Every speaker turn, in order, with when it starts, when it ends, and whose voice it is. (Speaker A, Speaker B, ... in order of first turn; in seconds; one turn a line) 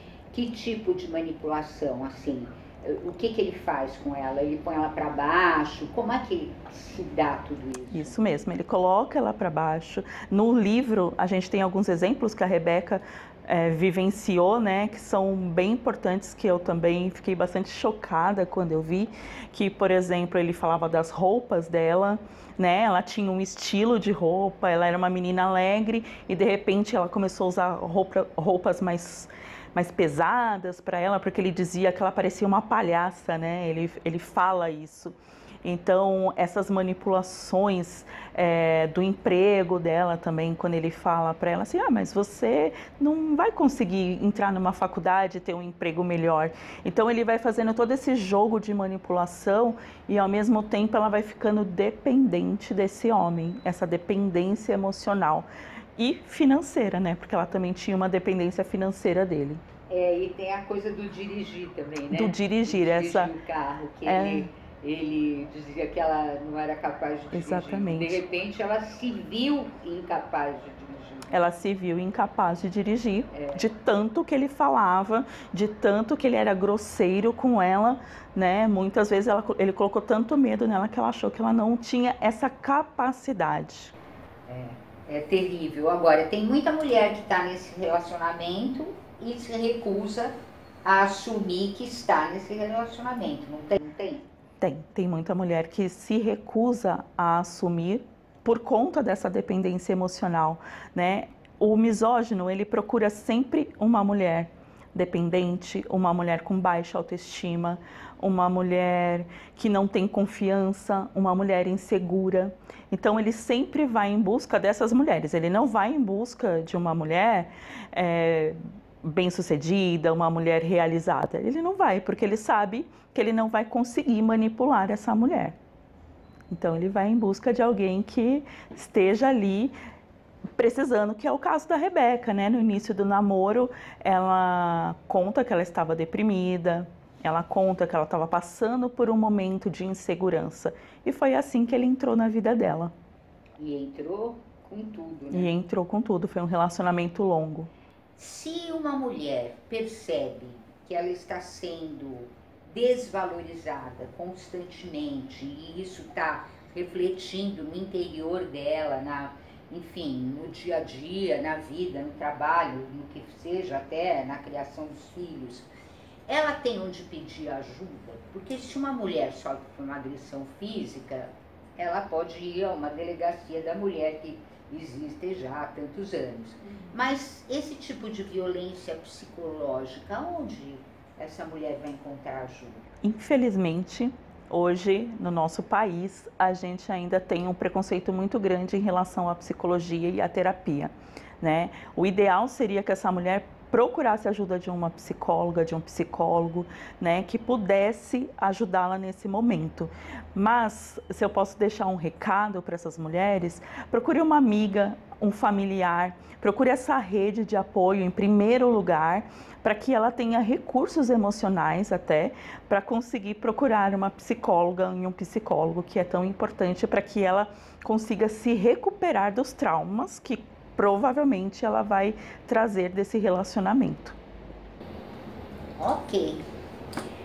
Speaker A: 0.3-8.2
Speaker B: 7.9-59.6
Speaker A: 59.9-71.3
Speaker B: 62.1-63.3
Speaker B: 64.1-64.5
Speaker B: 67.3-68.2
Speaker B: 71.3-83.9
Speaker A: 73.3-73.7
Speaker A: 84.5-94.3
Speaker B: 94.6-125.6
Speaker B: 126.5-129.8
Speaker B: 130.6-142.9
Speaker A: 143.6-145.5
Speaker B: 145.3-147.7
Speaker A: 148.2-165.7
Speaker A: 166.3-182.9
Speaker B: 183.0-224.2
Speaker A: 225.8-226.4